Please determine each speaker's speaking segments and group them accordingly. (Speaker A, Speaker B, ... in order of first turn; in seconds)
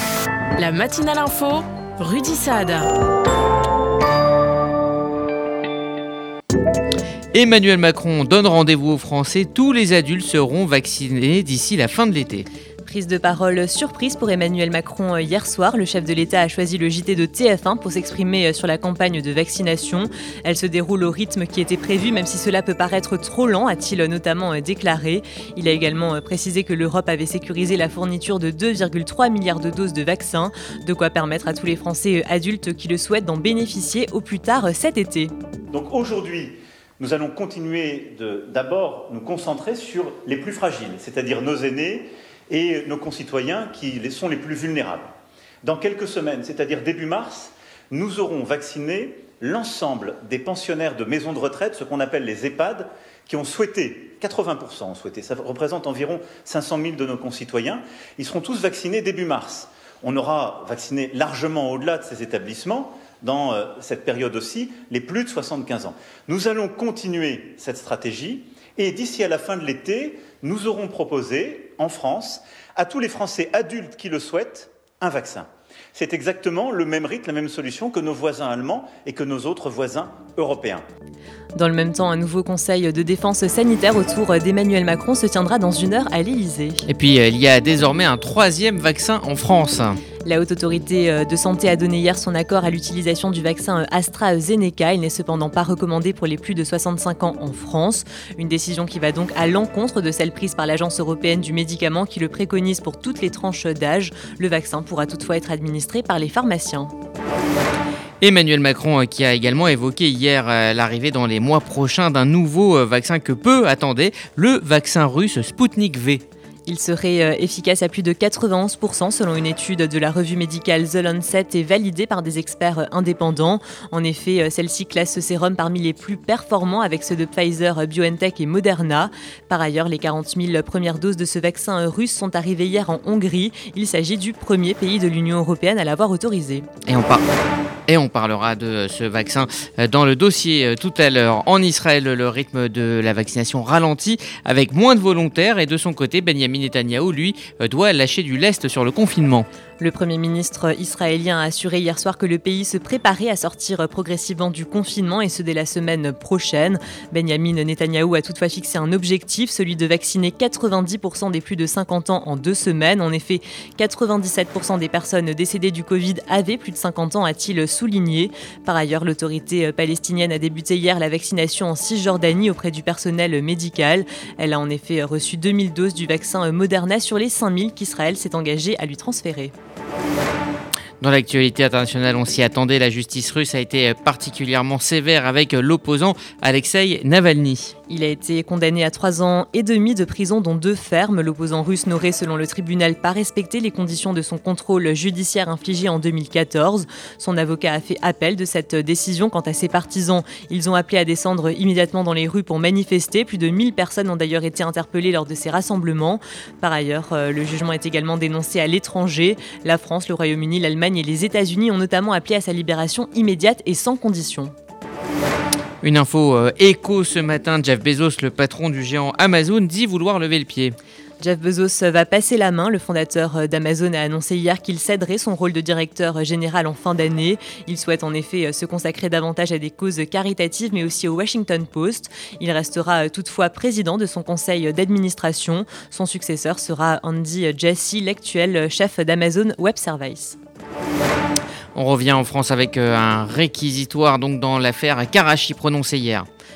Speaker A: 0.6-2.9
Speaker B: 7.3-12.4, 86.9-90.0, 108.2-116.2, 136.8-137.2, 137.9-149.5, 181.0-187.7, 215.8-220.8, 241.7-246.3
Speaker C: 12.8-35.3, 81.5-86.8, 90.2-106.9, 116.7-136.7, 149.8-179.5, 187.9-214.5, 221.2-240.4
Speaker D: 35.7-80.8